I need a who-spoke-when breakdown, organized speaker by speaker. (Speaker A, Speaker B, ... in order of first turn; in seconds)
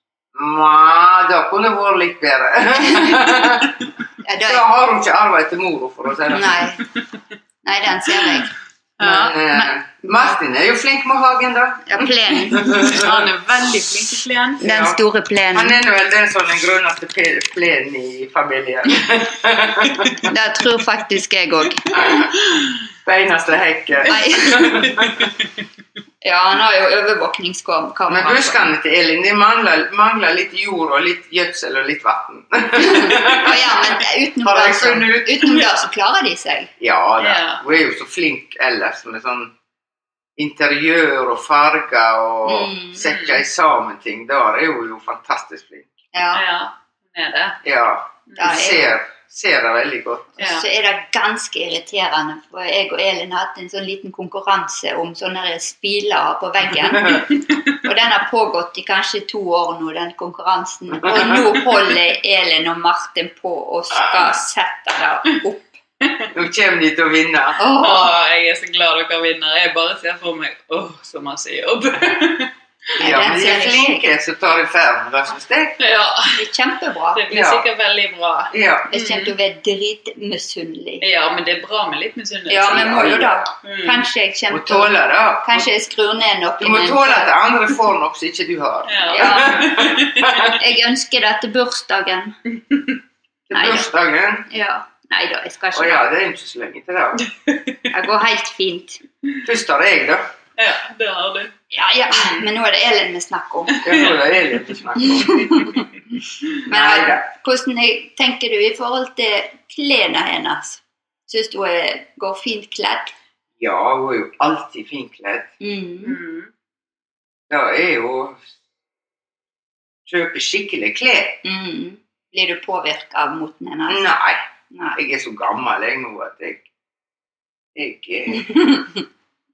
Speaker A: 0.3-3.8, 4.4-6.7, 9.0-13.2, 14.6-15.0, 15.5-20.3, 21.9-22.3, 23.1-25.3, 28.1-35.7, 36.8-39.5, 40.4-45.9, 47.6-50.4, 57.0-57.3, 60.9-61.6, 66.3-67.6, 73.0-75.8, 77.3-77.7, 78.5-78.9, 82.7-83.5, 84.5-85.7, 86.6-90.6, 93.5-94.5, 95.7-97.2, 99.4-100.3, 103.8-105.7, 106.7-107.2, 113.6-115.5, 117.5-118.4, 120.1-121.4, 123.9-124.4, 125.0-126.7, 127.8-128.8
Speaker B: 4.2-4.7, 6.3-6.8, 7.6-8.5, 9.5-10.3, 11.9-12.8, 14.6-15.8, 20.3-22.2, 24.1-24.8, 26.2-28.7, 32.8-36.7, 42.5-43.0, 46.1-46.4, 48.4-49.0, 50.4-65.8, 67.6-68.2, 73.0-74.1, 76.3-77.2, 78.9-81.0, 82.5-87.3, 89.1-89.7, 90.5-92.4, 93.5-93.9, 94.5-96.0, 97.9-99.0, 101.7-103.8, 105.0-105.8, 106.7-113.1, 115.6-116.2, 121.4-124.1, 124.7-125.0, 128.4-128.9
Speaker C: 9.0-9.4, 12.6-14.6, 37.2-37.6, 43.0-43.4, 46.3-47.6, 50.4-50.6, 67.8-72.5, 75.8-76.4, 77.2-79.3, 81.0-83.0, 83.6-84.1, 88.9-90.5, 97.5-97.8, 100.6-101.5, 102.1-102.4, 103.8-104.4, 105.5-105.8, 116.0-116.5